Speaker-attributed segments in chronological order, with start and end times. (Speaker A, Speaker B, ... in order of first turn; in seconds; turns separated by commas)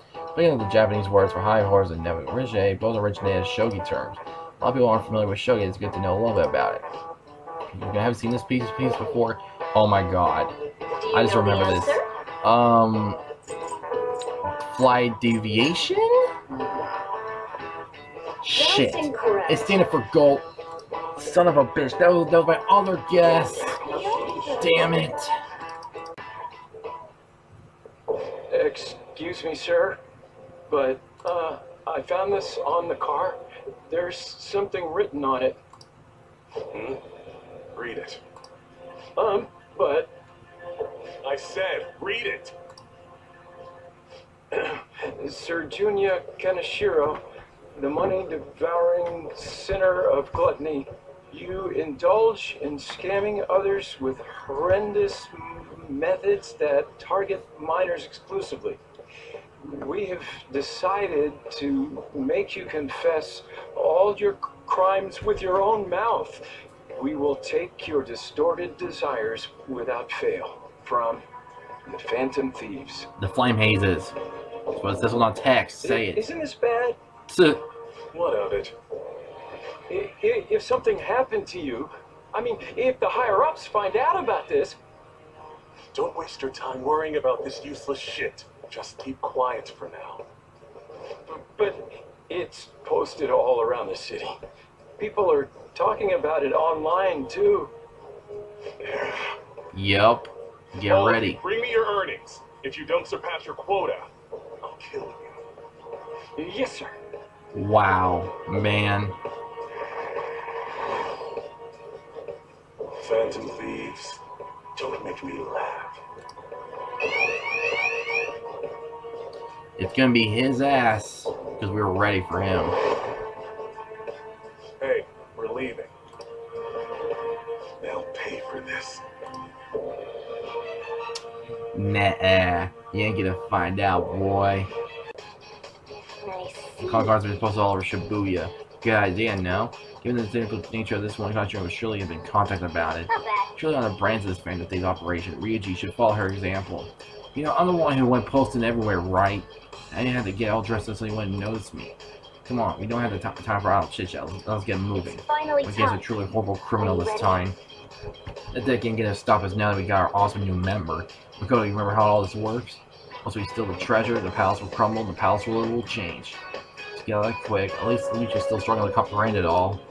Speaker A: 0.3-6.8, Speaker A: 7.7-10.5, Speaker B: 11.0-12.1, Speaker A: 11.1-13.2, Speaker A: 14.7-16.3, Speaker A: 18.4-20.5, Speaker B: 18.5-19.8, Speaker A: 21.2-23.8, Speaker B: 23.7-25.0, Speaker C: 24.2-24.5, Speaker A: 24.6-25.3, Speaker C: 28.5-30.0, Speaker C: 30.7-35.6, Speaker D: 36.7-37.0, Speaker D: 37.7-38.2, Speaker C: 39.1-40.1, Speaker D: 41.2-42.5, Speaker C: 44.5-58.8, Speaker C: 59.6-71.2, Speaker C: 71.8-73.1, Speaker A: 73.2-74.1, Speaker A: 74.7-76.3, Speaker C: 75.8-77.0, Speaker A: 77.3-77.6, Speaker D: 78.1-78.8, Speaker C: 79.9-84.8, Speaker D: 85.9-90.2, Speaker C: 91.3-94.4, Speaker C: 95.0-97.7, Speaker D: 98.8-99.3, Speaker A: 99.7-101.4, Speaker D: 100.8-104.1, Speaker D: 104.6-105.4, Speaker C: 106.4-106.9, Speaker A: 107.5-109.2, Speaker D: 113.0-114.2, Speaker D: 114.7-116.0, Speaker A: 119.8-122.8, Speaker D: 124.8-125.9, Speaker D: 127.8-129.0, Speaker A: 131.7-134.7, Speaker B: 136.2-137.2, Speaker A: 136.8-157.6, Speaker B: 143.1-143.5, Speaker B: 155.1-156.1, Speaker B: 156.8-157.4, Speaker A: 158.5-166.4, Speaker A: 166.9-169.8